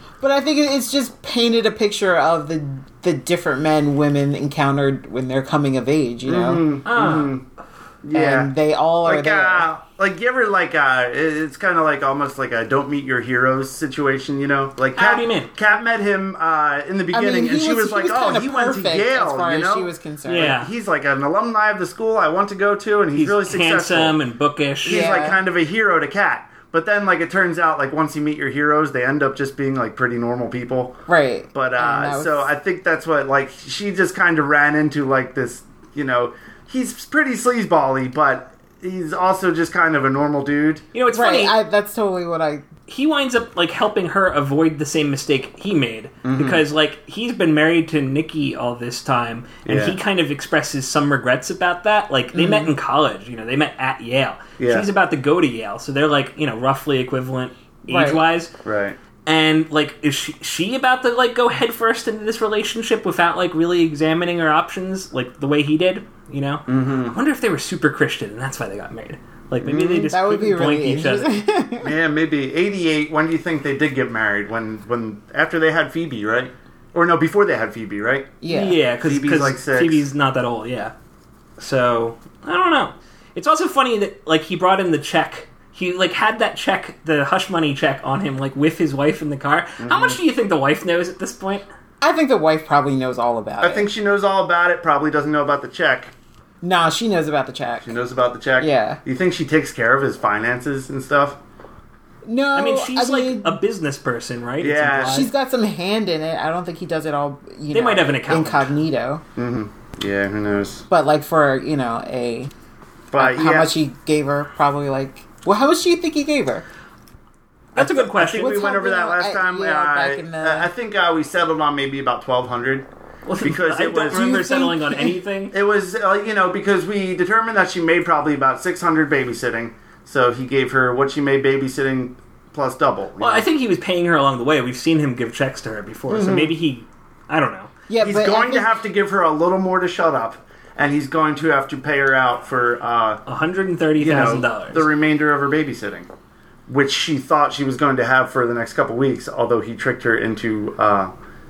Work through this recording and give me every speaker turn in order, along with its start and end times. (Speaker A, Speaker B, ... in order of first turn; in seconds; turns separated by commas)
Speaker A: 0.2-6.7, Speaker B: 6.2-7.4, Speaker C: 6.8-7.4, Speaker B: 8.0-8.5, Speaker A: 8.1-9.7, Speaker B: 9.0-24.2, Speaker C: 14.9-15.5, Speaker A: 17.1-20.5, Speaker C: 20.2-20.7, Speaker C: 23.1-25.1, Speaker A: 24.8-25.4, Speaker B: 24.8-31.0, Speaker A: 31.1-32.5, Speaker B: 31.5-40.8, Speaker C: 40.9-41.6, Speaker A: 41.1-42.6, Speaker C: 42.9-58.5, Speaker B: 46.2-46.6, Speaker B: 49.6-50.0, Speaker A: 52.3-52.7, Speaker B: 54.6-54.9, Speaker A: 57.9-58.2, Speaker B: 58.6-59.0, Speaker C: 59.2-71.4, Speaker B: 66.7-67.2, Speaker B: 69.6-70.1, Speaker A: 70.1-71.9, Speaker B: 71.8-78.4, Speaker A: 78.4-78.8, Speaker C: 78.5-80.9, Speaker B: 79.0-80.0, Speaker C: 81.6-91.6, Speaker B: 89.8-90.2, Speaker A: 92.0-93.9, Speaker B: 93.6-96.1, Speaker A: 96.6-97.9, Speaker B: 97.8-101.4, Speaker A: 98.6-99.0, Speaker A: 102.2-103.6, Speaker C: 102.5-105.3, Speaker B: 104.6-105.3, Speaker A: 105.0-109.2, Speaker C: 107.7-108.7, Speaker B: 109.3-110.8, Speaker A: 110.9-112.5, Speaker B: 113.1-113.7, Speaker A: 113.2-116.6, Speaker C: 117.7-118.5, Speaker B: 117.8-122.9, Speaker A: 118.4-120.7, Speaker C: 123.2-125.5, Speaker B: 123.4-124.4, Speaker A: 124.1-125.1, Speaker B: 125.5-133.4, Speaker C: 133.2-137.7, Speaker B: 136.1-136.5, Speaker A: 137.9-138.8, Speaker B: 138.0-143.2, Speaker C: 143.3-144.9, Speaker B: 144.0-146.1, Speaker B: 146.7-151.1